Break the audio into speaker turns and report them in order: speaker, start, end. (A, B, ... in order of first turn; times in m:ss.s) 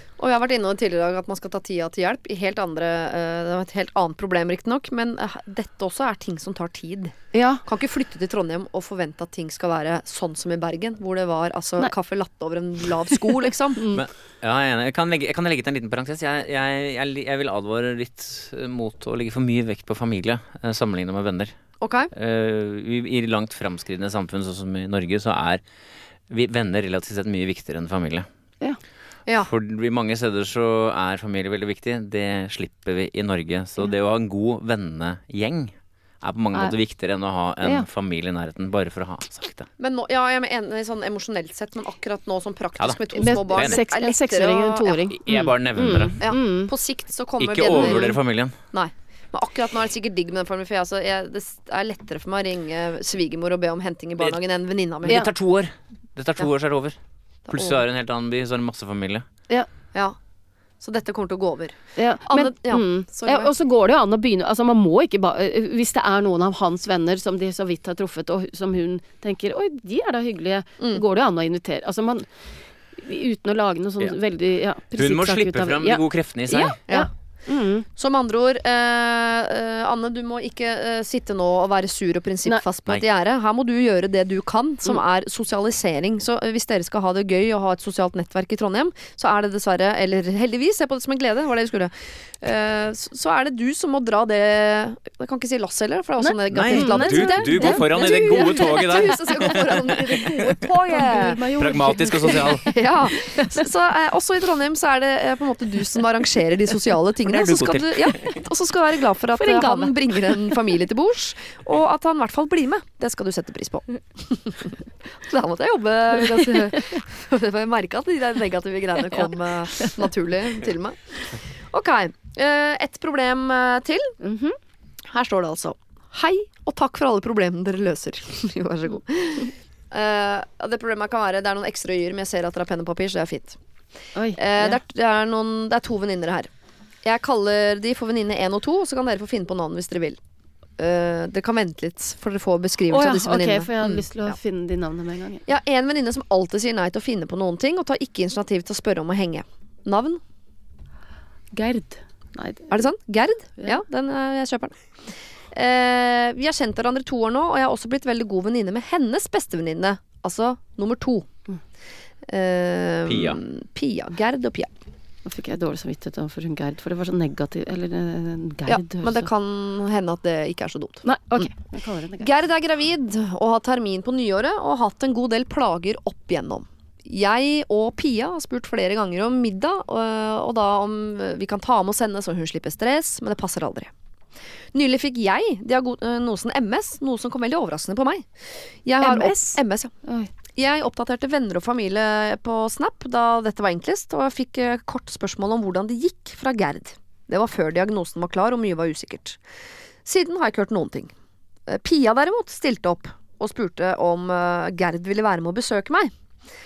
0:00.2-0:13.8 A
0:07.3-0:07.6 B
0:13.8-0:14.0 B
0:13.9-0:21.5 C
0:21.8-0:22.1 A
0:22.1-0:25.6 C
0:26.3-0:28.3 C
0:29.4-0:39.7 C
0:39.8-0:45.0 A
0:42.8-0:43.8 C
0:43.2-0:46.7 B
0:45.1-0:46.2 C
0:46.2-0:48.2 A
0:47.4-0:48.6 C
0:47.7-0:48.2 B
0:48.7-0:55.2 A
0:55.0-0:57.0 C
0:57.5-0:57.8 A
0:57.5-0:59.2 C
1:00.8-1:03.5 A
1:02.0-1:12.3 B
1:13.0-1:17.9 B
1:14.9-1:16.8 C
1:18.0-1:41.4 A
1:36.2-1:39.5 B
1:36.5-1:40.6 C
1:40.1-1:42.7 B
1:41.6-1:42.7 C
1:42.3-2:04.2 A
1:43.2-1:43.5 B
1:47.2-1:48.4 C
1:49.4-1:50.6 B
1:59.1-1:59.9 B
2:04.2-2:04.6 B
2:05.1-2:13.6 A
2:14.1-2:14.8 B
2:14.4-2:16.5 A
2:17.0-2:20.2 A
2:20.8-2:24.4 A
2:22.9-2:25.4 B
2:25.4-2:30.2 A
2:31.5-2:32.8 B
2:32.7-2:34.7 A
2:35.5-2:41.3 A
2:42.3-2:44.7 A
2:43.1-2:43.4 C
2:45.2-2:49.3 B
2:48.7-2:51.5 A
2:51.0-2:52.3 B
2:52.2-3:03.9 A
3:04.7-3:08.3 A
3:08.8-3:09.9 A
3:09.0-3:10.3 B
3:10.6-3:19.4 A
3:20.0-3:21.1 A
3:21.7-3:26.1 A